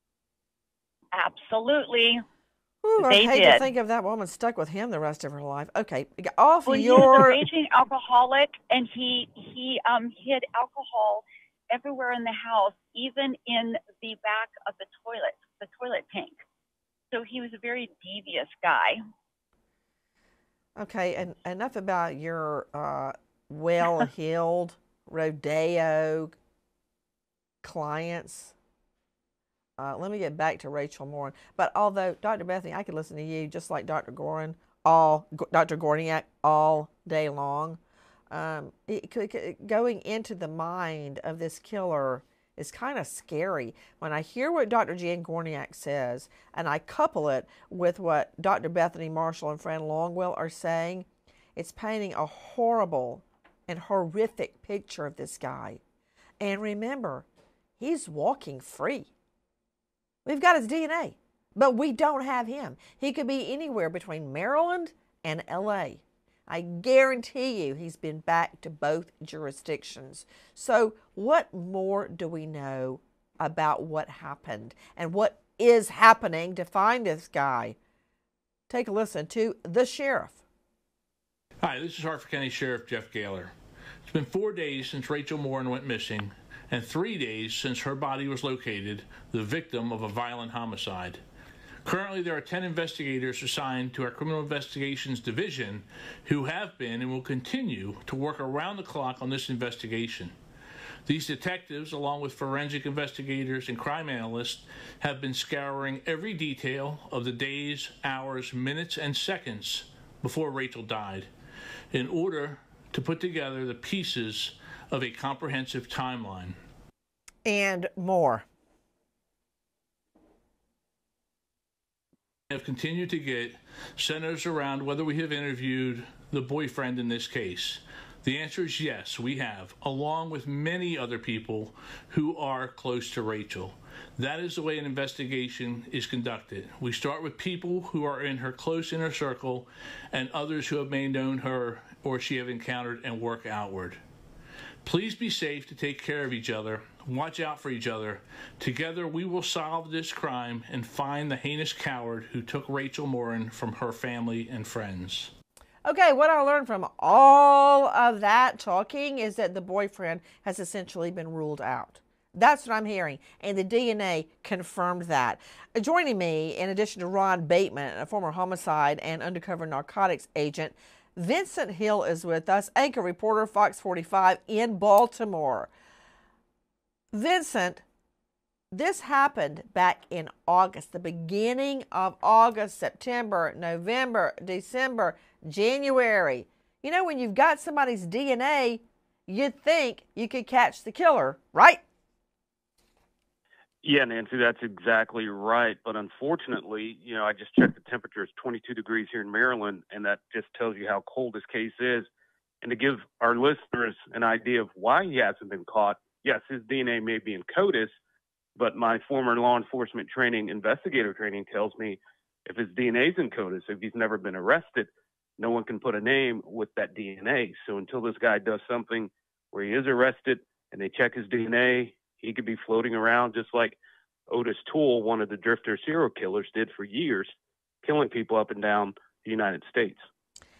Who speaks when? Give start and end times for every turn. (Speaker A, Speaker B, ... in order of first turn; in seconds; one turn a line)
Speaker A: 1.1-2.2
Speaker B: 2.8-7.4
Speaker A: 3.0-3.7
Speaker A: 6.7-16.4
Speaker A: 17.1-19.0
Speaker B: 20.8-26.4
Speaker B: 27.6-28.5
Speaker B: 29.8-37.8
Speaker B: 38.3-55.8
Speaker B: 56.4-57.3
Speaker B: 57.8-59.1
Speaker B: 60.3-77.8
Speaker B: 78.7-80.4
Speaker C: 81.6-83.5
Speaker C: 84.1-91.2
Speaker C: 91.8-100.3
Speaker C: 101.1-111.3
Speaker C: 111.9-116.6
Speaker B: 117.4-118.5
Speaker C: 122.5-144.0
Speaker C: 144.8-155.3
Speaker B: 155.8-175.7
Speaker B: 177.1-177.8
Speaker B: 178.7-191.8
Speaker D: 193.8-202.1
Speaker D: 202.6-208.0
Speaker D: 208.6-223.8
Speaker D: 224.3-230.1